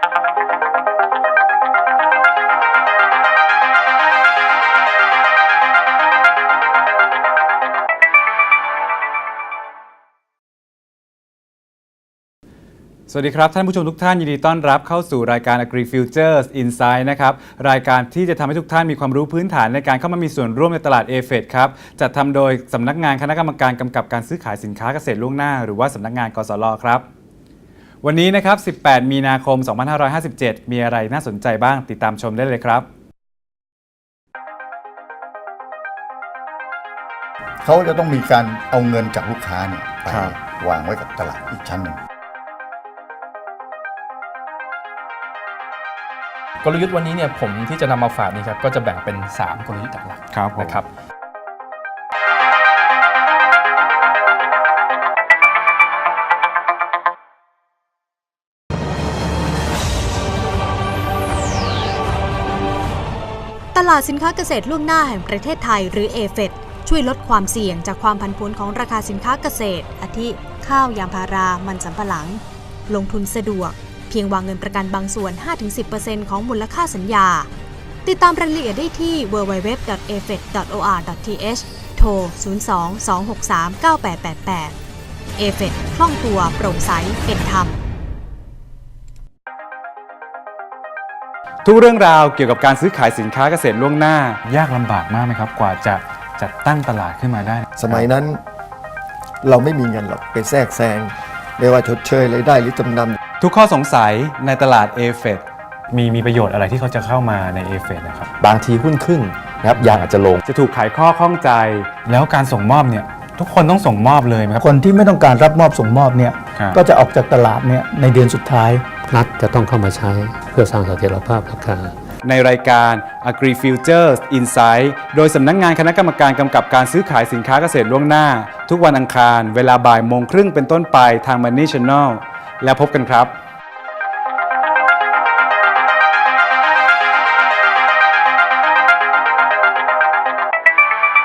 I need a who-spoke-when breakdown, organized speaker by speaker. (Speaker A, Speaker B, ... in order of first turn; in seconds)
Speaker A: 13.1-27.1, 28.0-32.9, 50.3-50.8, 91.6-98.1, 103.4-108.3, 109.7-114.6, 122.2-133.3
Speaker B: 37.6-42.0
Speaker C: 46.6-50.9
Speaker D: 63.7-77.5, 78.0-84.7, 85.4-87.8
Speaker E: 97.8-98.4, 99.4-103.2
Speaker F: 114.6-119.1
Speaker G: 119.0-121.9